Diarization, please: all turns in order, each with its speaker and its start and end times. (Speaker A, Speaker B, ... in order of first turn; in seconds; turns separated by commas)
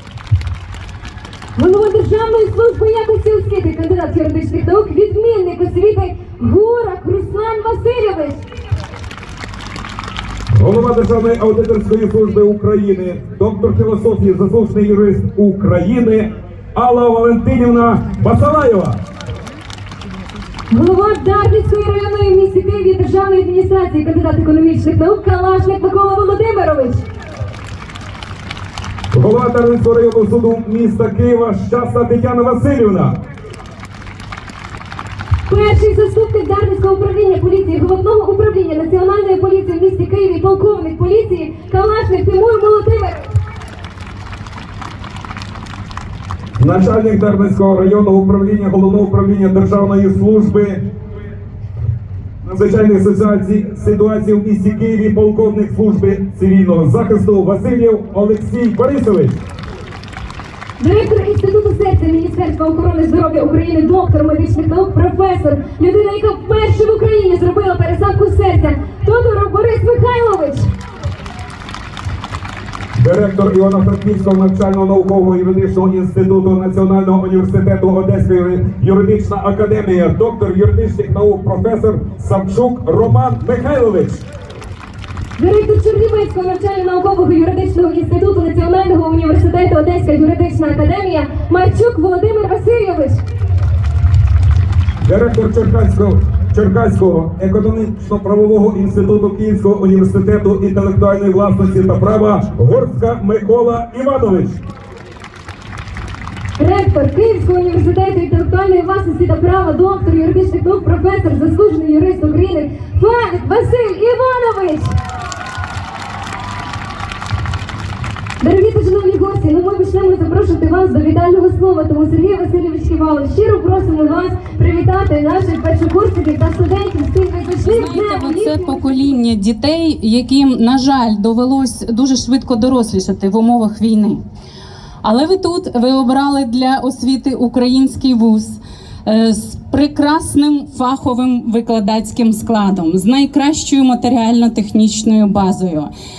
Speaker A: 1.6-8.4, Speaker B: 10.5-19.0, Speaker A: 20.7-27.0, Speaker B: 29.1-33.2, Speaker A: 35.5-43.2, Speaker B: 46.6-50.8, Speaker B: 52.4-59.4, Speaker A: 60.8-70.7, Speaker B: 73.0-84.2, Speaker A: 85.4-93.2, Speaker B: 95.0-104.6, Speaker A: 106.6-114.9, Speaker A: 118.4-129.0, Speaker C: 127.6-134.2, Speaker C: 135.0-145.9